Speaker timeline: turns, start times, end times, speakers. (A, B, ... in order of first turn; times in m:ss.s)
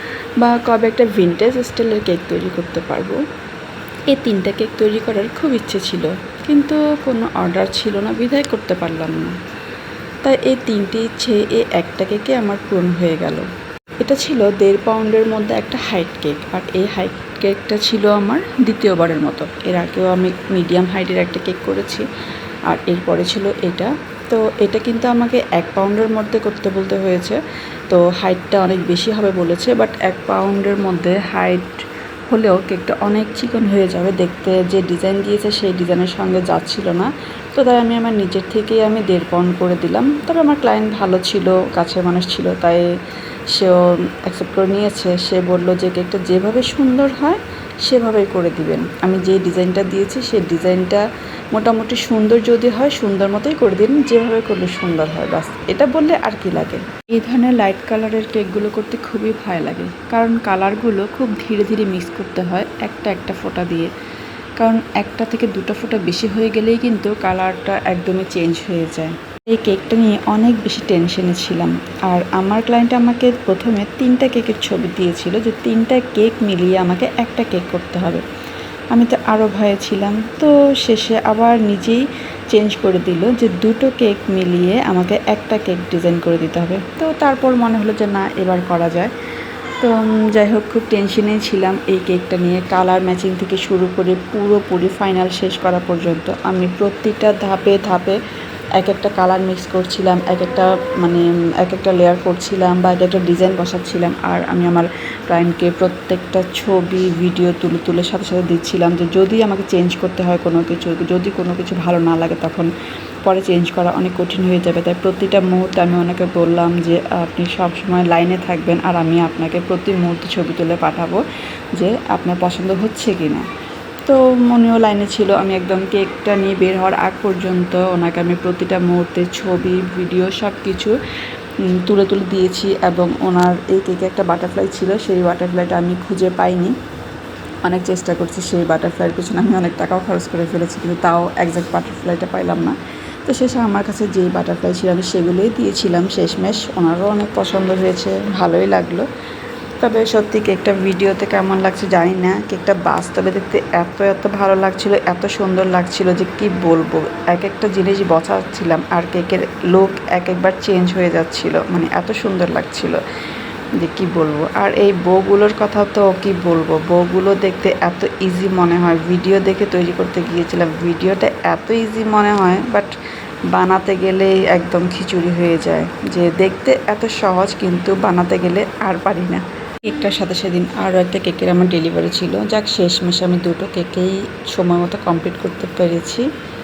0:00.4-0:03.2 A
0:04.1-0:09.4 A
0:10.2-0:13.5 A
0:14.0-0:22.0 A
0:22.7-0:42.9 A
0:43.5-1:03.9 A
1:04.6-1:18.2 A
1:18.9-1:29.1 A
1:29.8-1:38.2 A
1:38.8-1:52.7 A
1:53.2-2:03.5 A
2:04.0-2:11.0 A
2:11.6-2:16.8 A
2:17.6-2:29.1 A
2:29.8-2:43.0 A
2:43.8-2:52.9 A
2:53.5-3:06.3 A